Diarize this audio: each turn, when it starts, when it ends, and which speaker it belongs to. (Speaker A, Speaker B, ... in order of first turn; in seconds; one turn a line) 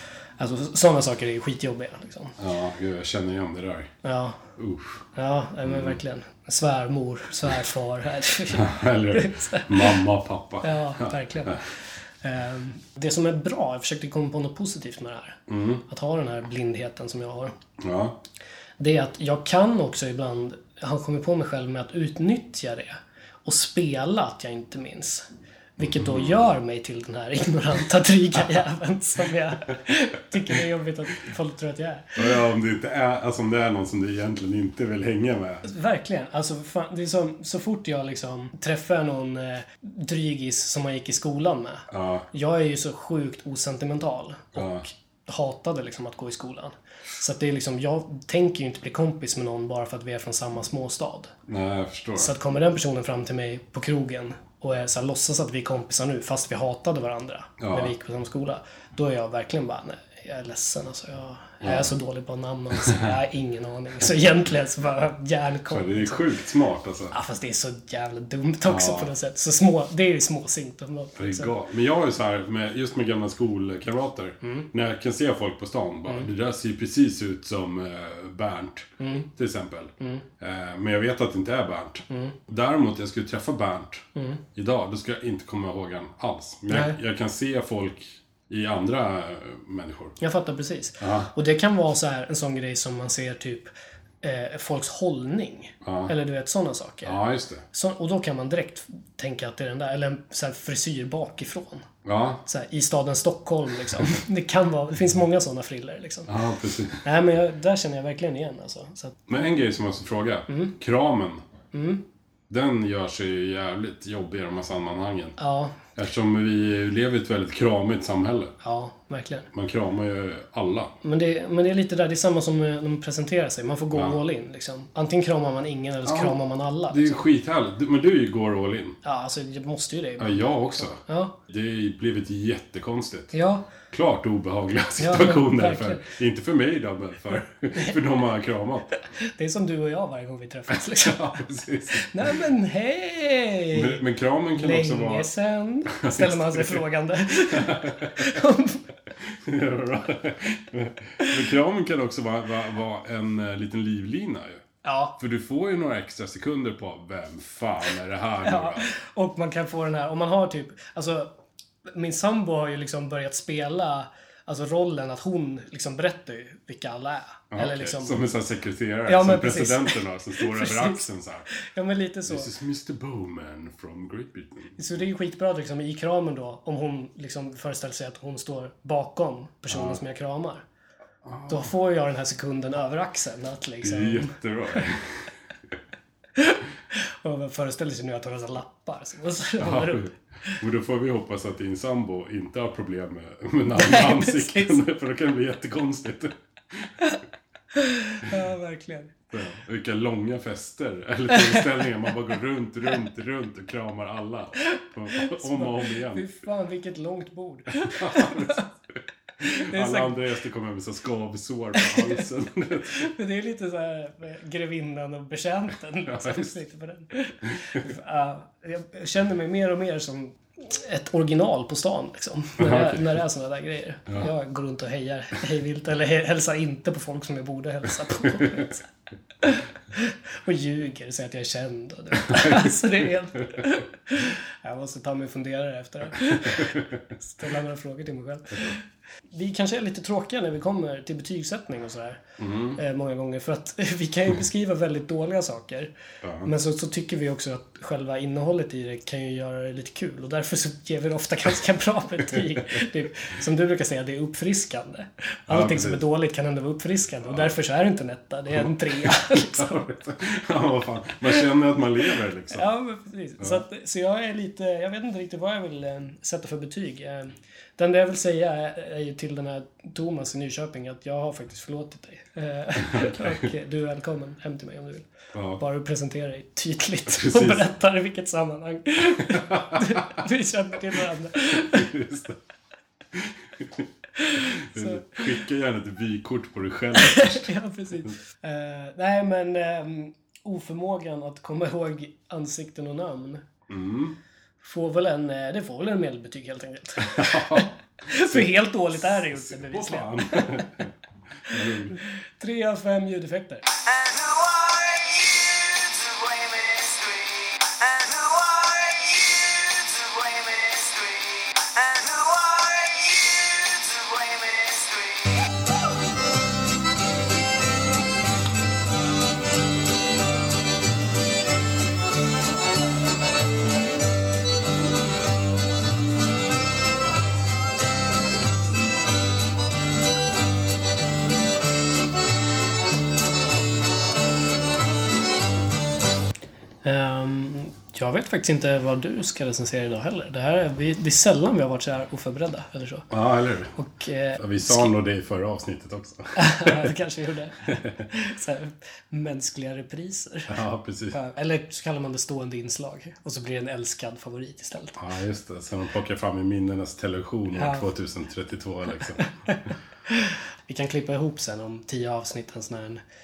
Speaker A: 0.4-2.4
Speaker B: 2.4-3.9
Speaker A: 4.0-4.4
Speaker B: 4.5-5.0
Speaker A: 5.1-10.0
Speaker B: 5.6-6.0
Speaker B: 8.5-11.6
Speaker A: 10.6-11.6
Speaker A: 12.2-17.6
Speaker B: 15.5-15.8
Speaker B: 17.8-18.2
Speaker A: 18.8-25.2
Speaker A: 25.8-32.4
Speaker B: 25.8-26.4
Speaker B: 32.1-35.6
Speaker A: 35.6-51.3
Speaker B: 41.9-42.3
Speaker B: 44.5-44.9
Speaker B: 51.5-52.3
Speaker A: 52.1-66.3
Speaker B: 57.6-57.9
Speaker B: 61.6-61.9
Speaker B: 65.7-67.1
Speaker A: 67.1-71.5
Speaker B: 68.7-69.1
Speaker B: 71.2-90.2
Speaker A: 74.4-74.7
Speaker A: 79.0-79.3
Speaker A: 80.0-80.2
Speaker A: 82.1-82.3
Speaker A: 84.1-84.4
Speaker A: 86.7-87.0
Speaker A: 90.2-93.7
Speaker B: 91.0-91.3
Speaker A: 94.2-97.2
Speaker B: 95.8-96.1
Speaker B: 97.0-97.6
Speaker A: 97.7-101.9
Speaker B: 102.0-102.4
Speaker A: 102.4-106.3
Speaker B: 106.3-107.0
Speaker A: 107.0-109.2
Speaker B: 109.3-111.4
Speaker A: 110.5-110.7
Speaker A: 111.7-112.0
Speaker B: 112.5-115.3
Speaker A: 115.4-115.8
Speaker B: 115.9-118.5
Speaker A: 118.6-119.5
Speaker B: 119.5-120.9
Speaker A: 121.0-127.2
Speaker B: 126.0-126.3
Speaker B: 126.9-129.0
Speaker A: 129.0-131.4
Speaker B: 130.2-133.3
Speaker A: 133.3-133.7
Speaker B: 133.9-138.9
Speaker A: 135.0-136.1
Speaker A: 139.1-144.0
Speaker B: 140.7-142.4
Speaker B: 143.7-145.3
Speaker A: 144.5-148.9
Speaker B: 145.9-146.8
Speaker B: 147.5-148.3
Speaker B: 149.2-154.6
Speaker A: 154.8-155.2
Speaker B: 155.2-158.9
Speaker A: 158.4-161.3
Speaker A: 161.9-168.2
Speaker B: 167.5-171.5
Speaker A: 169.1-172.5
Speaker B: 172.2-174.8
Speaker A: 174.8-180.6
Speaker B: 179.7-180.0
Speaker B: 181.2-181.7
Speaker A: 181.5-184.9
Speaker B: 183.8-185.3
Speaker A: 186.4-190.6
Speaker B: 189.6-196.9
Speaker A: 193.7-194.8
Speaker A: 197.7-199.1
Speaker B: 199.3-206.3
Speaker A: 201.3-201.7
Speaker A: 204.6-208.7
Speaker B: 207.8-213.1
Speaker A: 209.4-210.2
Speaker A: 211.8-212.2
Speaker A: 212.8-228.8
Speaker B: 216.1-216.6
Speaker B: 222.6-223.1
Speaker B: 228.4-228.6
Speaker A: 229.4-242.2
Speaker B: 232.2-232.7
Speaker B: 236.3-236.9
Speaker B: 242.4-242.8
Speaker A: 242.7-245.9
Speaker B: 246.2-246.5
Speaker A: 246.4-259.9
Speaker B: 255.5-256.0
Speaker B: 258.6-262.6
Speaker A: 262.5-275.1
Speaker B: 272.9-273.4
Speaker B: 275.3-275.6
Speaker A: 275.6-282.0
Speaker B: 277.1-277.7
Speaker B: 279.2-280.1
Speaker B: 281.5-282.4
Speaker B: 283.1-287.5
Speaker A: 284.1-285.4
Speaker A: 286.9-293.4
Speaker B: 293.7-294.1
Speaker A: 294.6-300.7
Speaker B: 297.0-297.7
Speaker B: 298.2-300.9
Speaker B: 301.4-302.0
Speaker A: 301.6-303.7
Speaker C: 303.7-315.7
Speaker A: 336.8-343.1
Speaker B: 343.1-343.7
Speaker A: 343.8-344.9
Speaker B: 344.4-346.9
Speaker A: 346.4-350.6
Speaker B: 347.6-348.0
Speaker B: 350.5-351.2
Speaker A: 351.1-355.0
Speaker B: 354.9-359.3
Speaker A: 357.5-357.9
Speaker A: 359.1-363.0